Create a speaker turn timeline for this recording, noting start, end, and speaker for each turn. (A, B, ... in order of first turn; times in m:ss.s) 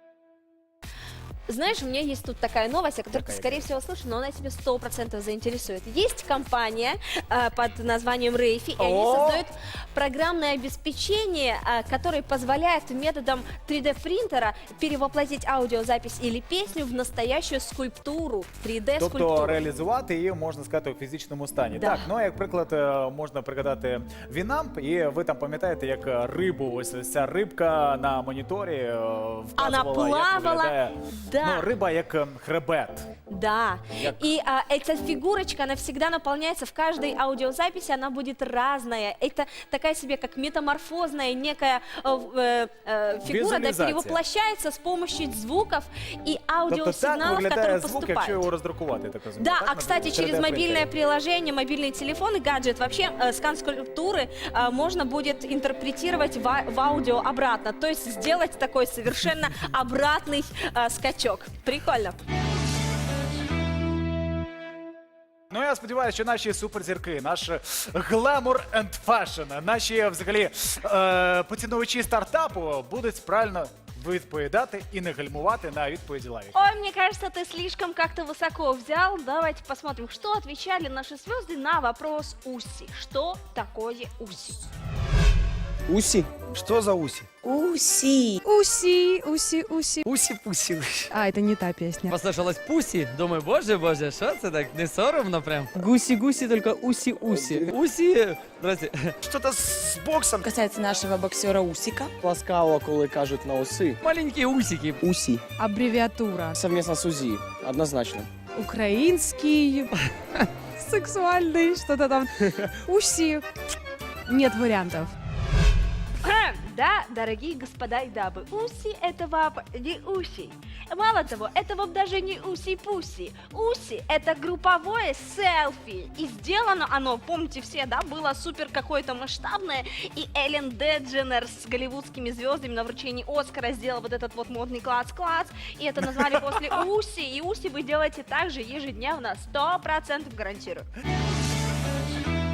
0:01.5-0:19.6 A
0:03.1-0:03.7 B
0:08.8-0:09.5 B
0:19.0-0:33.1 B
0:21.8-0:22.1 A
0:29.6-0:31.7 A
0:33.3-0:48.5 A
0:34.0-0:34.2 B
0:43.2-0:44.2 B
0:46.7-0:50.9 B
0:49.4-1:02.2 A
1:05.5-1:16.6 B
1:16.5-1:24.7 A
1:25.9-1:27.3 C
1:27.4-1:28.0 D
1:28.4-1:30.0 E
1:30.1-1:30.9 C
1:31.1-1:32.1 E
1:32.1-1:35.8 F
1:35.8-1:37.7 C
1:36.7-1:37.4 D
1:37.3-1:39.1 F
1:39.2-1:40.5 C
1:40.4-1:42.1 D
1:42.2-1:44.0 C
1:44.0-1:45.0 F
1:45.0-1:45.4 C
1:45.6-1:46.6 E
1:46.5-1:48.3 C
1:48.6-1:49.9 E
1:50.8-1:53.4 E
1:54.3-1:55.1 E
1:56.2-2:20.9 A